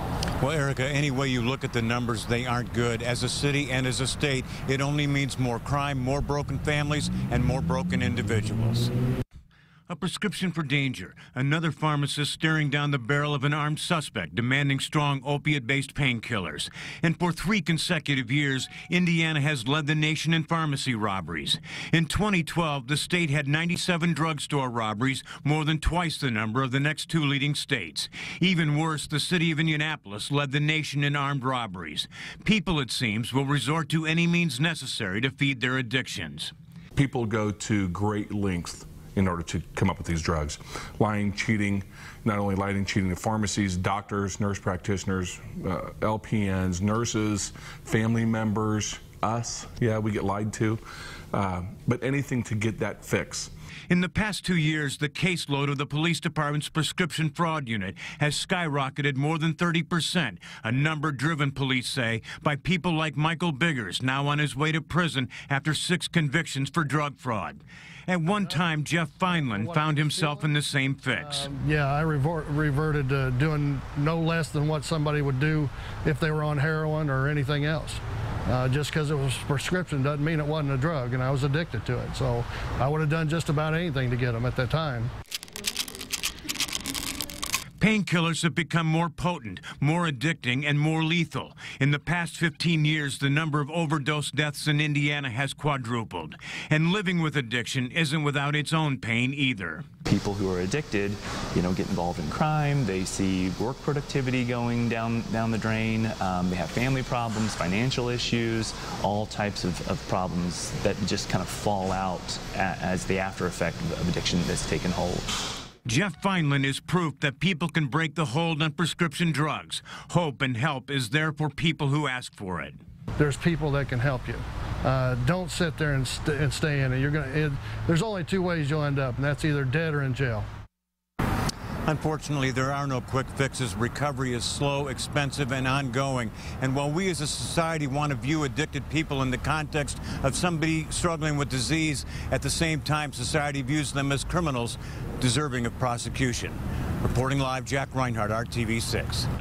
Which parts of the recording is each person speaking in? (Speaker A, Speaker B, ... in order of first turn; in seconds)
Speaker A: 0.4-8.9, 9.9-36.5, 53.9-71.5, 87.8-99.8, 115.8-122.8, 131.8-149.3
Speaker B: 37.0-50.8, 51.3-53.5
Speaker C: 69.3-70.5, 71.2-85.1, 123.2-130.5
Speaker D: 100.0-115.3